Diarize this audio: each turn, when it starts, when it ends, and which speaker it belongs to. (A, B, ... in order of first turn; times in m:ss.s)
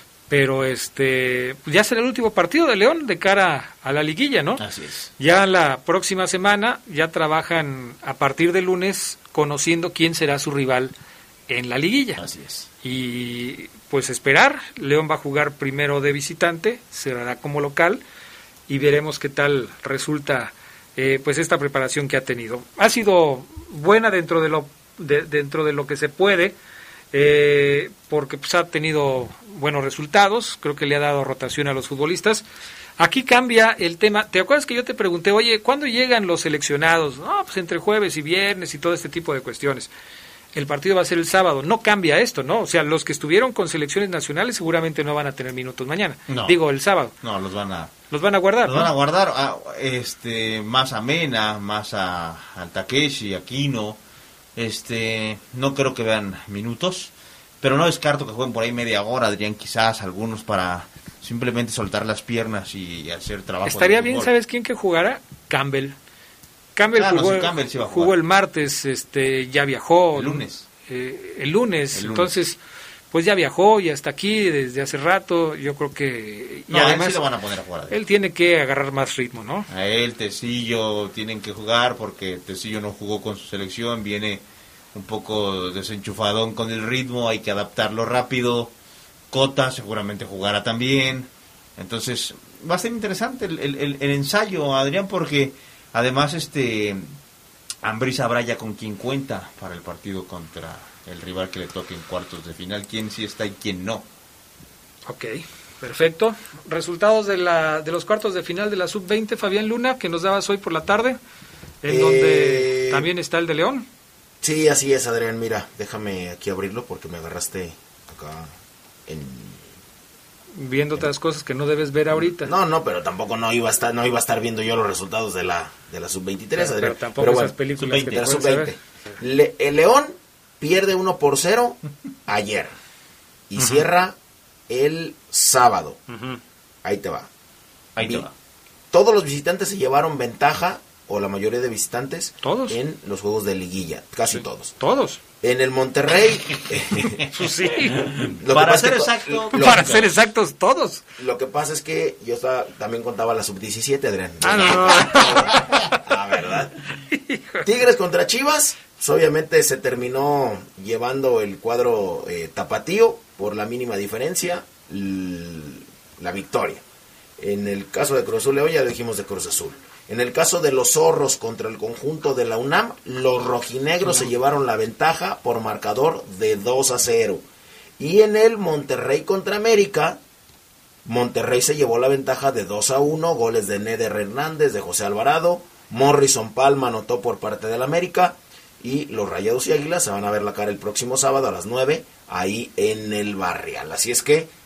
0:00.3-0:04.6 A
0:04.6-0:05.1 B
0:05.2-0:10.9 A
0:11.5-0:12.2 A
0:12.2-0:12.7 B
0:12.8-0:18.0 A
0:18.7-0:26.5 A
0:27.1-0:32.4 A
0:33.0-0:39.9 A
0:40.5-0:47.1 A
0:46.3-0:46.6 B
0:47.2-0:47.9 B
0:48.1-0:48.9 A
0:48.6-0:54.0 B
0:54.6-1:04.3 B
1:03.6-1:06.0 A
1:06.8-1:12.6 A
1:06.9-1:08.1 B
1:10.1-1:10.6 B
1:11.9-1:12.3 B
1:13.1-1:17.2 A
1:16.7-1:18.0 B
1:17.9-1:19.7 A
1:19.7-1:24.4 B
1:24.9-1:28.7 B
1:29.3-1:37.2 B
1:37.8-1:44.0 B
1:45.1-1:51.2 A
1:51.8-1:53.9 A
1:51.8-1:53.1 C
1:54.4-1:58.5 C
1:59.0-1:59.6 C
2:00.6-2:02.5 A
2:02.2-2:12.7 C
2:06.5-2:08.7 A
2:07.8-2:08.2 B
2:13.5-2:14.1 C
2:14.7-2:16.0 C
2:16.1-2:16.4 A
2:16.8-2:17.3 C
2:18.0-2:18.3 B
2:18.0-2:18.3 C
2:18.9-2:24.7 C
2:22.4-2:22.8 A
2:24.3-2:25.2 A
2:25.4-2:27.2 C
2:27.3-2:28.2 A
2:27.9-2:30.1 B
2:28.4-2:30.0 C
2:29.5-2:31.0 A
2:31.2-2:36.7 C
2:34.4-2:36.0 A
2:37.1-2:37.7 A
2:37.6-2:46.8 C
2:47.4-2:57.4 C
2:58.0-3:00.2 C
3:01.0-3:14.5 C